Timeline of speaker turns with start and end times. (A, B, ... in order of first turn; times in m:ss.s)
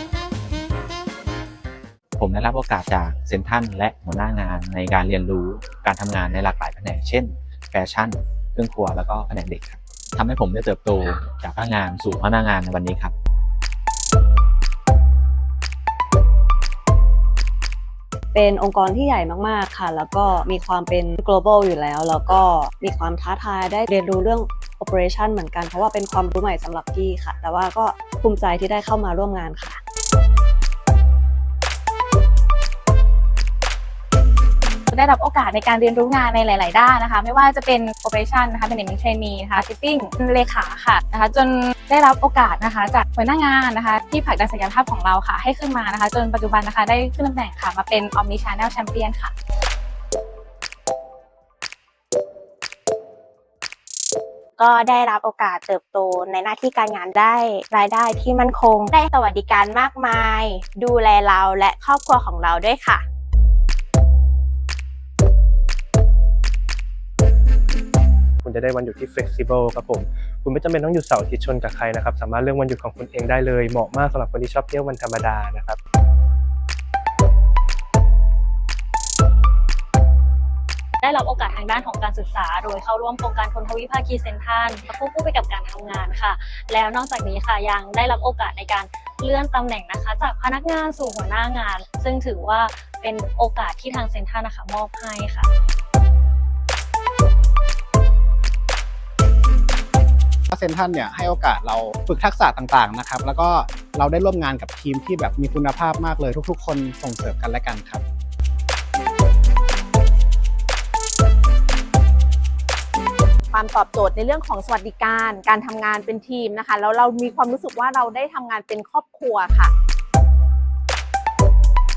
0:02.2-0:13.1 A
0:18.3-0:29.8 B
0:34.9-0:49.3 C
0:54.6-1:03.0 D
1:08.4-1:15.8 E
1:21.0-1:35.5 F
1:40.5-1:48.0 G
1:53.5-1:59.7 H